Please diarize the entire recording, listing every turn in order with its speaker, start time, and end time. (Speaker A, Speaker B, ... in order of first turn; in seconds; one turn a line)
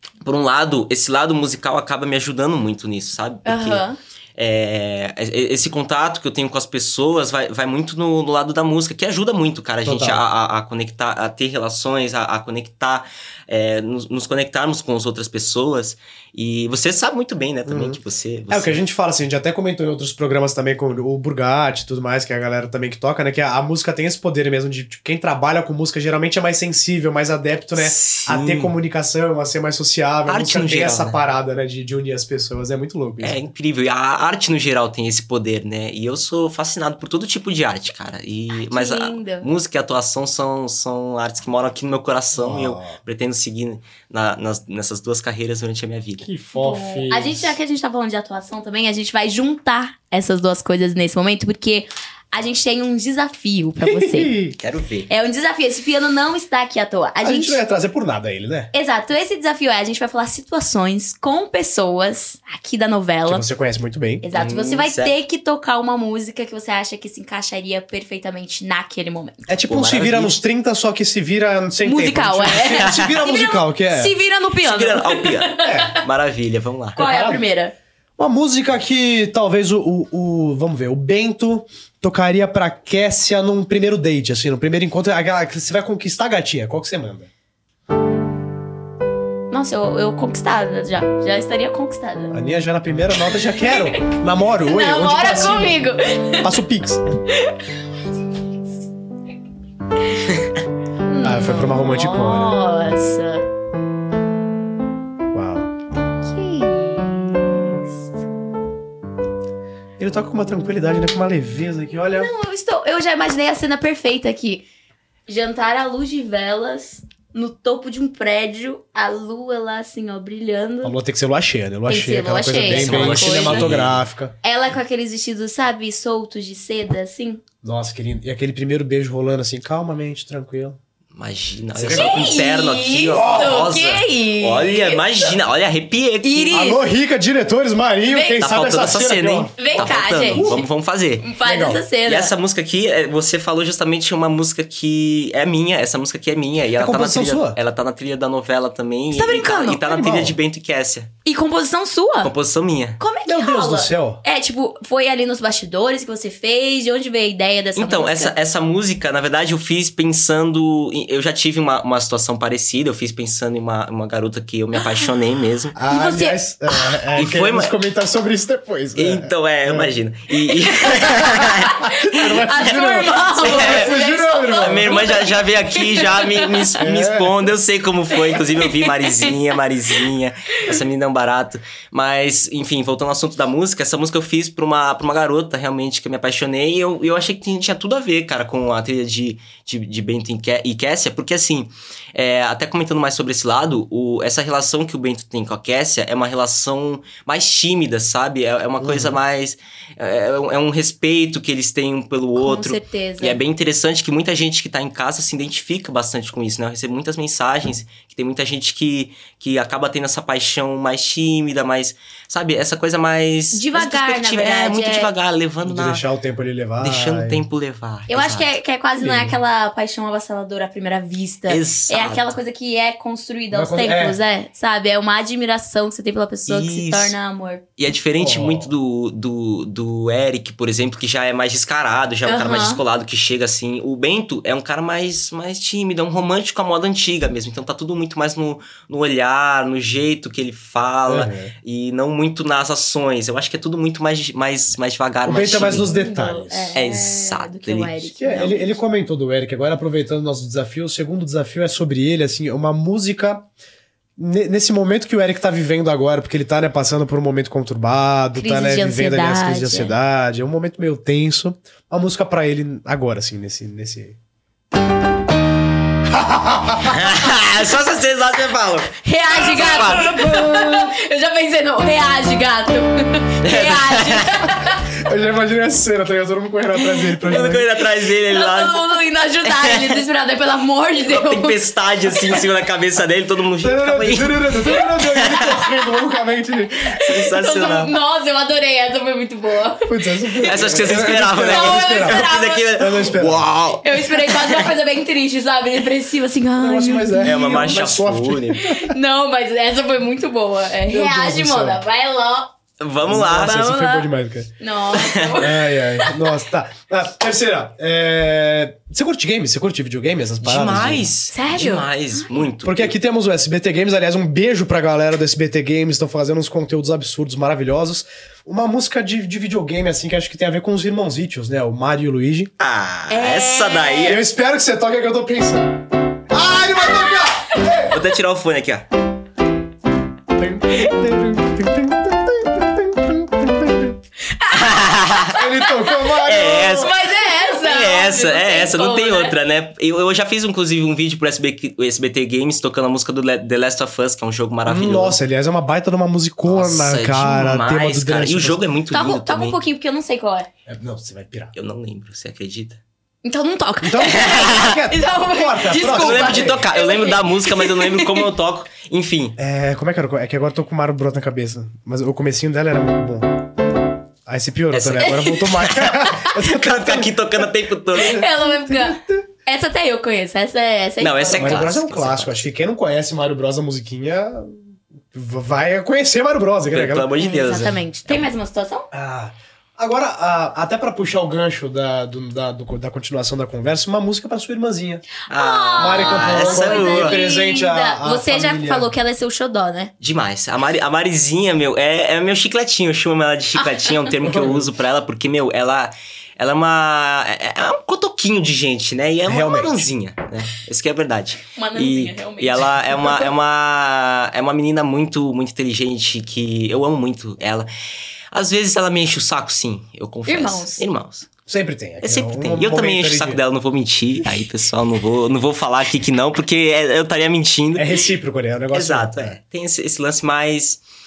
Speaker A: 0.2-18.8
Speaker B: 3.5-4.0
Speaker C: 9.8-10.2
Speaker C: 17.7-18.0
Speaker C: 18.5-33.4
Speaker A: 27.8-28.7
Speaker A: 30.3-31.2
Speaker A: 33.2-46.3
Speaker B: 38.5-39.5
Speaker C: 42.3-43.0
Speaker C: 46.2-47.6
Speaker B: 46.5-54.4
Speaker C: 53.8-54.6
Speaker A: 54.6-55.1
Speaker B: 55.1-57.6
Speaker C: 57.2-58.7
Speaker B: 58.7-63.5
Speaker C: 63.3-64.2
Speaker B: 64.2-69.5
Speaker A: 64.3-65.1
Speaker C: 69.5-74.1
Speaker A: 69.7-70.4
Speaker B: 71.8-76.0
Speaker A: 72.8-73.2
Speaker A: 74.6-77.0
Speaker C: 75.6-76.0
Speaker B: 77.0-77.7
Speaker C: 77.0-77.4
Speaker C: 78.2-87.3
Speaker B: 89.5-92.3
Speaker C: 92.3-97.2
Speaker B: 93.3-94.1
Speaker B: 94.7-96.6
Speaker B: 97.3-97.8
Speaker B: 100.1-100.4
Speaker B: 101.1-103.4
Speaker C: 101.2-102.5
Speaker C: 105.3-105.7
Speaker B: 106.2-108.1
Speaker C: 110.0-112.3
Speaker B: 112.1-114.7
Speaker B: 115.3-121.0
Speaker C: 120.8-124.3
Speaker B: 121.9-123.8
Speaker A: 122.7-124.0
Speaker B: 124.4-127.4
Speaker C: 127.6-130.8
Speaker A: 131.1-136.6
Speaker C: 131.8-132.2
Speaker B: 131.9-135.3
Speaker C: 133.2-133.7
Speaker B: 136.2-136.8
Speaker C: 136.5-140.7
Speaker B: 138.1-138.5
Speaker A: 138.4-141.3
Speaker B: 139.6-140.6
Speaker B: 141.2-142.3
Speaker C: 141.4-141.8
Speaker A: 142.1-151.1
Speaker C: 146.8-147.6
Speaker B: 149.1-149.8
Speaker C: 149.8-150.4
Speaker B: 151.3-152.3
Speaker A: 152.2-153.0
Speaker B: 153.0-158.3
Speaker C: 153.3-154.2
Speaker A: 157.8-165.8
Speaker B: 164.8-165.1
Speaker C: 165.8-169.9
Speaker B: 165.9-167.0
Speaker A: 167.2-167.8
Speaker A: 169.0-173.9
Speaker B: 170.9-176.8
Speaker C: 171.0-175.1
Speaker A: 174.6-216.0
Speaker C: 176.8-177.4
Speaker B: 178.1-179.5
Speaker C: 198.8-199.2
Speaker B: 202.4-203.4
Speaker B: 213.5-215.1
Speaker C: 215.6-217.4
Speaker A: 216.8-218.5
Speaker B: 218.1-227.7
Speaker C: 219.0-219.4
Speaker A: 221.5-222.3
Speaker C: 223.5-224.2
Speaker A: 226.5-227.2
Speaker A: 227.8-245.9
Speaker C: 228.2-228.7
Speaker B: 232.3-232.8
Speaker C: 241.1-241.5
Speaker C: 245.2-246.8
Speaker B: 245.5-248.8
Speaker A: 246.7-248.1
Speaker C: 248.2-253.5
Speaker C: 254.2-264.2
Speaker B: 258.4-259.9
Speaker C: 266.1-267.1
Speaker A: 266.8-270.1
Speaker B: 269.0-275.0
Speaker C: 269.6-270.9
Speaker A: 273.4-274.5
Speaker C: 275.0-277.7
Speaker A: 277.1-278.8
Speaker B: 278.1-281.6
Speaker A: 279.5-280.0
Speaker A: 281.1-285.7
Speaker B: 282.1-282.4
Speaker C: 283.6-286.9
Speaker A: 286.9-287.9
Speaker B: 287.1-293.0
Speaker C: 289.9-293.4
Speaker A: 290.4-294.7
Speaker B: 293.8-297.7
Speaker C: 296.6-299.0
Speaker A: 297.2-298.7
Speaker B: 298.6-302.5
Speaker C: 300.9-301.8
Speaker A: 302.8-303.6
Speaker C: 303.1-304.5
Speaker B: 303.4-306.4
Speaker A: 305.0-305.3
Speaker C: 305.4-311.1
Speaker A: 310.4-312.9
Speaker B: 311.3-312.5
Speaker C: 312.6-322.5
Speaker A: 322.6-324.2
Speaker B: 323.1-324.2
Speaker C: 324.1-328.0
Speaker A: 327.9-328.9
Speaker C: 330.4-334.0
Speaker B: 334.3-339.4
Speaker A: 334.5-335.4
Speaker C: 335.3-336.9
Speaker A: 336.2-336.9
Speaker A: 337.5-345.2
Speaker C: 344.7-348.6
Speaker A: 346.5-349.6
Speaker B: 348.9-350.5
Speaker C: 350.7-351.5
Speaker A: 351.6-352.8
Speaker B: 353.2-358.3
Speaker C: 353.8-356.6
Speaker A: 354.1-354.7
Speaker A: 355.8-359.4
Speaker C: 359.4-363.4
Speaker C: 364.3-367.4
Speaker A: 364.7-368.3
Speaker B: 365.0-366.3
Speaker C: 367.9-369.3
Speaker B: 367.9-371.7
Speaker A: 371.0-372.4
Speaker C: 371.3-374.6
Speaker C: 375.1-377.1
Speaker A: 376.7-378.3
Speaker B: 377.2-378.9
Speaker C: 378.9-385.1
Speaker A: 385.3-387.2
Speaker B: 385.3-389.9
Speaker C: 385.8-388.9
Speaker A: 390.0-407.7
Speaker B: 393.6-394.1
Speaker C: 394.2-394.7
Speaker C: 399.2-399.9
Speaker B: 401.5-403.3
Speaker A: 408.3-411.3
Speaker B: 410.3-410.8
Speaker C: 411.5-413.4
Speaker A: 412.0-418.0
Speaker C: 417.8-419.4
Speaker A: 418.7-420.8